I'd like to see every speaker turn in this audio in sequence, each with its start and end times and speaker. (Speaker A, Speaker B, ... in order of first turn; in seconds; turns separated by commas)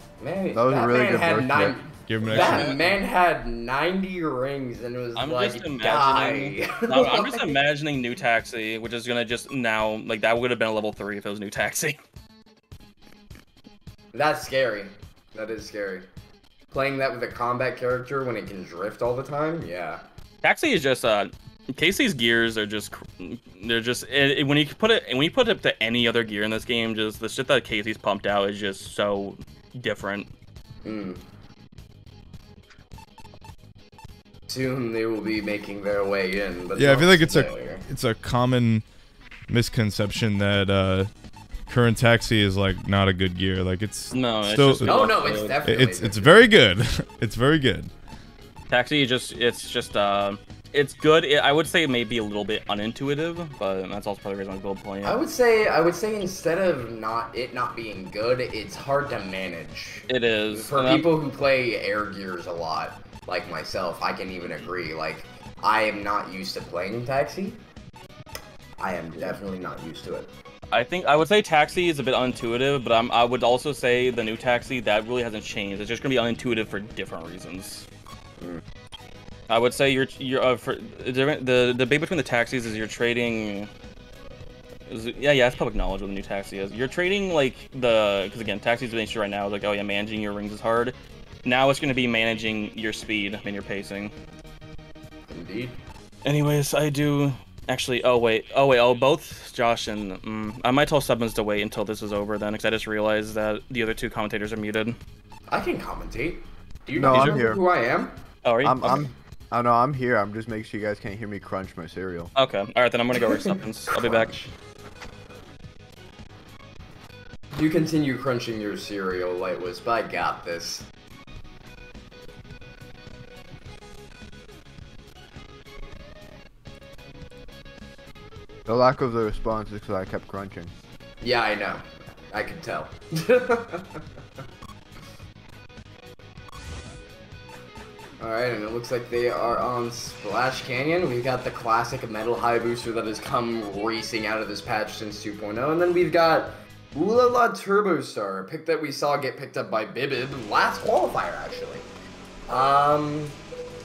Speaker A: 0.2-7.5, Speaker B: 0.5-1.8, Speaker C: 2.1-2.8, Speaker D: 2.3-2.9, Speaker D: 5.2-12.0, Speaker A: 14.1-16.1, Speaker A: 16.7-20.0, Speaker D: 20.4-30.3, Speaker A: 30.9-31.2, Speaker A: 34.5-37.9, Speaker C: 36.8-38.9, Speaker C: 39.5-41.1, Speaker C: 41.7-45.0, Speaker D: 44.1-45.6, Speaker A: 44.9-46.4, Speaker C: 45.6-47.9, Speaker D: 48.7-55.2, Speaker A: 55.0-67.6, Speaker D: 60.1-61.1, Speaker A: 68.8-70.3, Speaker D: 70.7-77.9, Speaker D: 79.5-83.7, Speaker D: 84.9-94.1, Speaker A: 95.3-95.8, Speaker D: 96.2-105.0, Speaker A: 105.5-108.2, Speaker B: 107.0-107.6, Speaker D: 107.1-107.4, Speaker D: 108.4-109.0, Speaker B: 108.6-112.3, Speaker D: 112.4-114.4, Speaker A: 113.2-114.5, Speaker A: 117.5-120.9, Speaker B: 128.7-130.7, Speaker A: 131.2-134.0, Speaker A: 138.2-151.9, Speaker A: 152.5-153.4